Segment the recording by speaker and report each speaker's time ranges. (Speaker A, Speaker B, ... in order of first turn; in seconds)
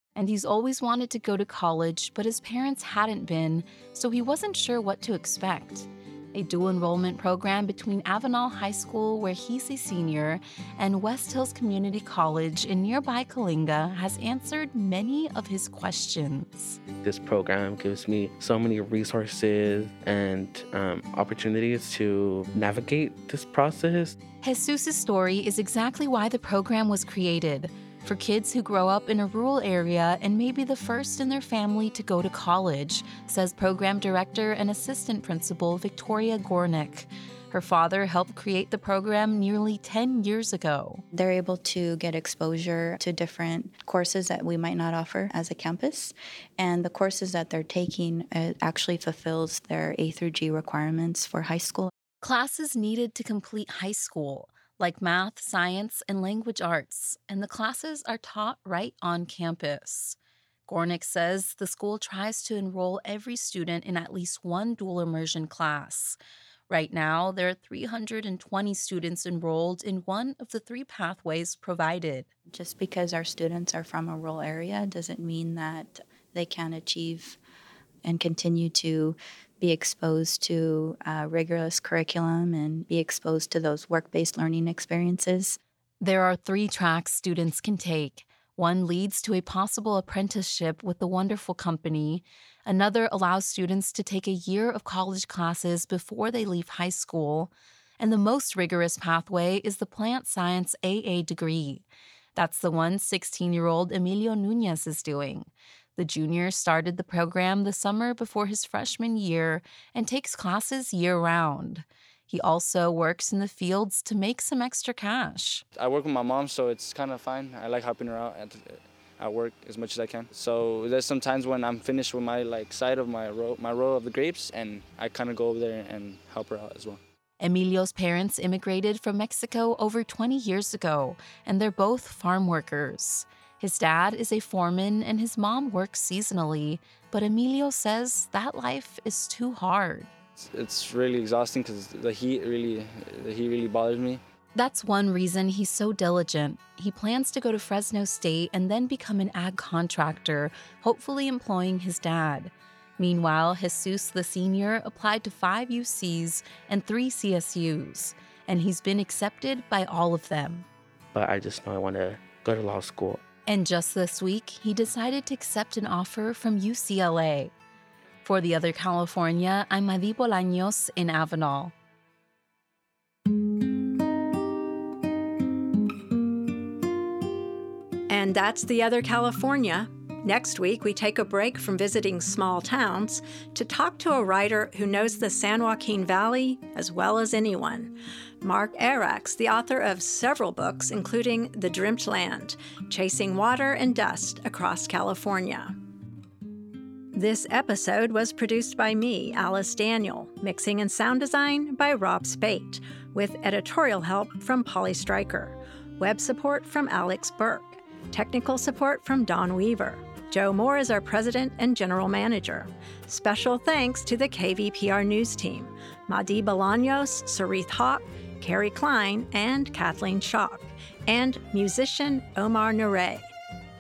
Speaker A: 0.1-16.8, 24.4-41.0, 52.2-66.2, 66.7-72.3, 86.0-115.6, 127.4-140.1, 144.5-160.7, 163.5-167.5, 168.2-171.7
Speaker B: 17.0-24.2, 161.1-163.2
Speaker C: 41.1-51.9, 72.5-77.4, 78.0-85.6
Speaker D: 115.7-127.0, 140.4-144.2
Speaker E: 178.1-195.7, 197.1-223.3